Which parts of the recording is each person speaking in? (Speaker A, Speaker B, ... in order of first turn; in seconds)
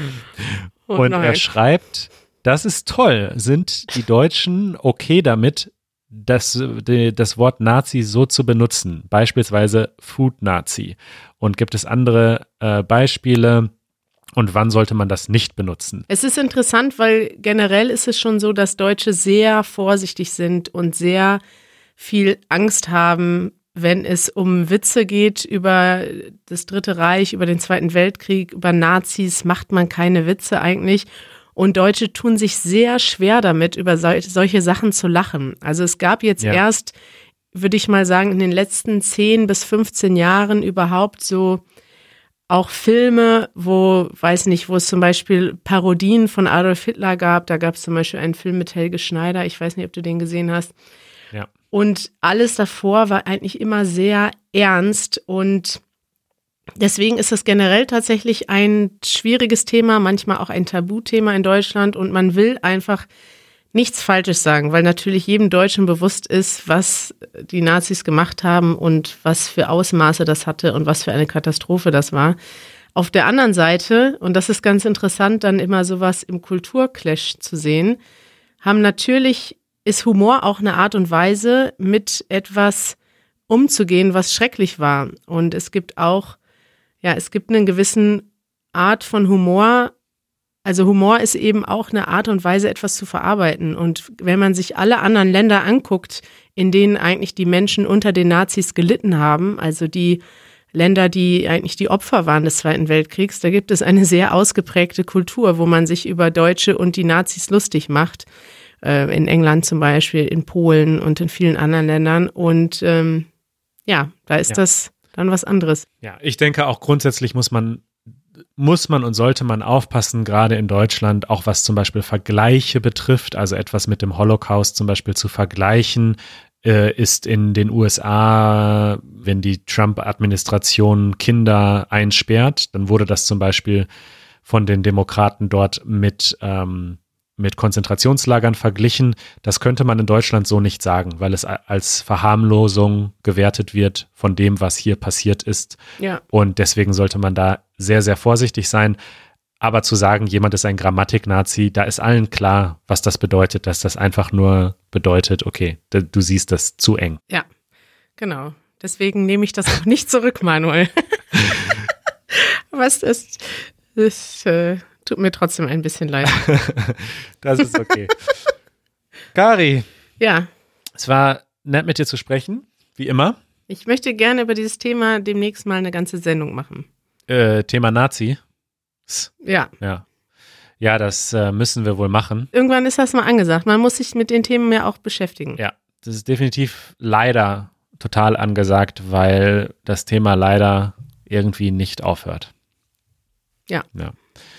Speaker A: 0.4-13.7, 14.4-16.1, 116.0-117.9, 118.6-133.9, 134.4-145.8, 146.3-149.0, 149.6-157.2, 166.3-168.2, 169.3-169.9, 170.9-173.4, 177.3-178.4, 179.1-180.0, 180.8-182.5, 185.6-192.5
Speaker B: 0.9-1.4, 16.1-21.4, 22.0-37.0, 37.5-41.6, 42.5-50.7, 51.7-55.8, 56.8-63.1, 63.7-72.4, 73.0-78.0, 78.6-83.0, 83.5-86.4, 87.0-89.9, 90.7-100.2, 100.7-108.3, 108.8-113.3, 113.9-115.9, 158.2-161.7, 162.3-166.4, 170.2-170.5, 173.7-176.9, 179.4-179.7, 182.5-185.6